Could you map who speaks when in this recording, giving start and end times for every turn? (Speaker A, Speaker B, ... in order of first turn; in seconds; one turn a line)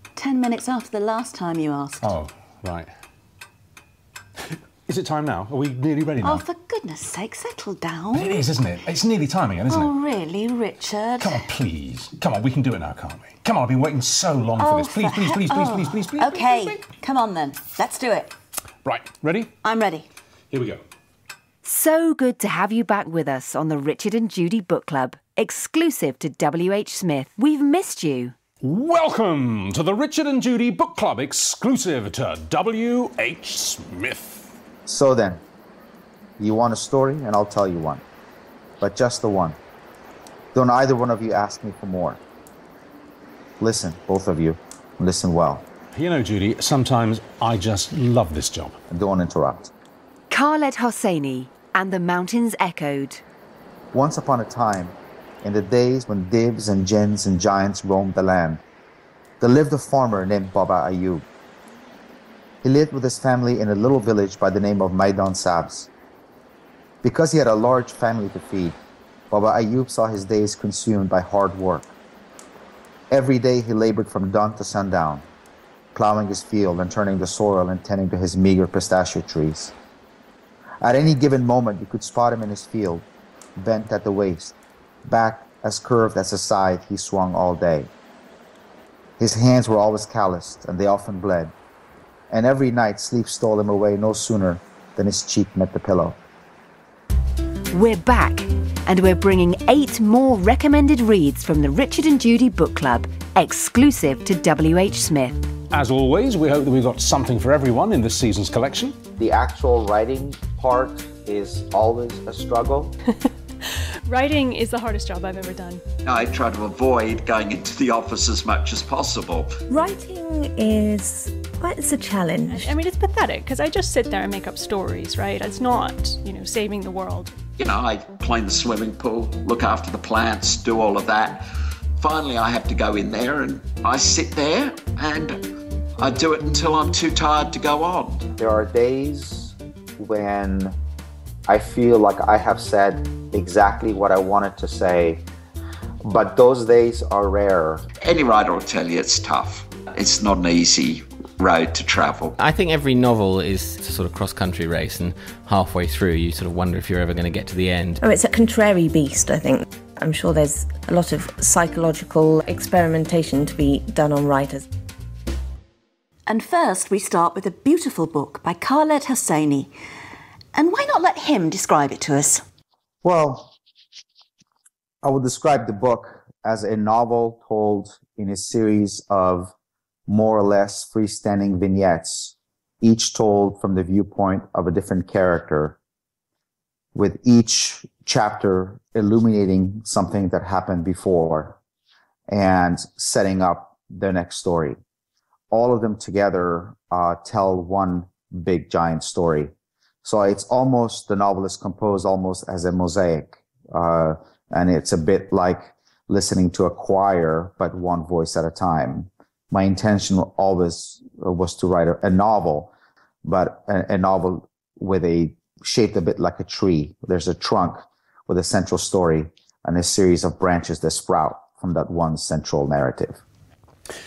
Speaker A: 0.1-2.1
Speaker B: 2.0-2.9
Speaker B: 4.5-6.4
Speaker A: 6.2-8.4
Speaker B: 8.2-9.9
Speaker A: 9.7-11.4
Speaker B: 11.2-16.8
Speaker A: 14.6-18.3
Speaker B: 18.8-19.5
Speaker A: 19.6-20.1
Speaker B: 20.5-20.8
Speaker C: 21.6-28.3
Speaker B: 28.6-34.5
Speaker D: 34.9-35.4
Speaker D: 36.4-38.0
Speaker D: 38.8-39.6
Speaker D: 40.5-42.2
Speaker D: 43.6-45.6
Speaker B: 45.9-48.8
Speaker D: 48.9-49.7
Speaker C: 50.3-53.2
Speaker D: 53.9-58.6
Speaker D: 59.4-61.2
Speaker D: 62.6-65.9
Speaker D: 67.0-68.8
Speaker D: 69.3-71.9
Speaker D: 73.1-75.2
Speaker D: 75.9-79.7
Speaker D: 80.8-87.9
Speaker D: 89.2-91.5
Speaker D: 92.3-96.2
Speaker C: 97.7-105.5
Speaker B: 105.7-109.0
Speaker D: 109.2-112.9
Speaker E: 114.1-115.8
Speaker F: 116.0-119.5
Speaker G: 119.7-122.7
Speaker E: 122.5-127.3
Speaker F: 127.6-131.4
Speaker F: 132.0-135.4
Speaker F: 136.0-138.3
Speaker D: 138.4-140.8
Speaker D: 141.5-145.2
Speaker D: 146.0-147.8
Speaker F: 148.0-152.3
Speaker H: 152.4-158.0
Speaker G: 158.0-164.6
Speaker A: 166.3-169.7
Speaker A: 170.5-172.4
Speaker D: 173.0-173.5
Speaker D: 175.0-179.5
Speaker D: 180.1-185.8
Speaker D: 186.9-191.6
Speaker D: 192.3-194.8
Speaker D: 195.5-199.5
Speaker D: 200.0-212.7
Speaker D: 213.2-223.2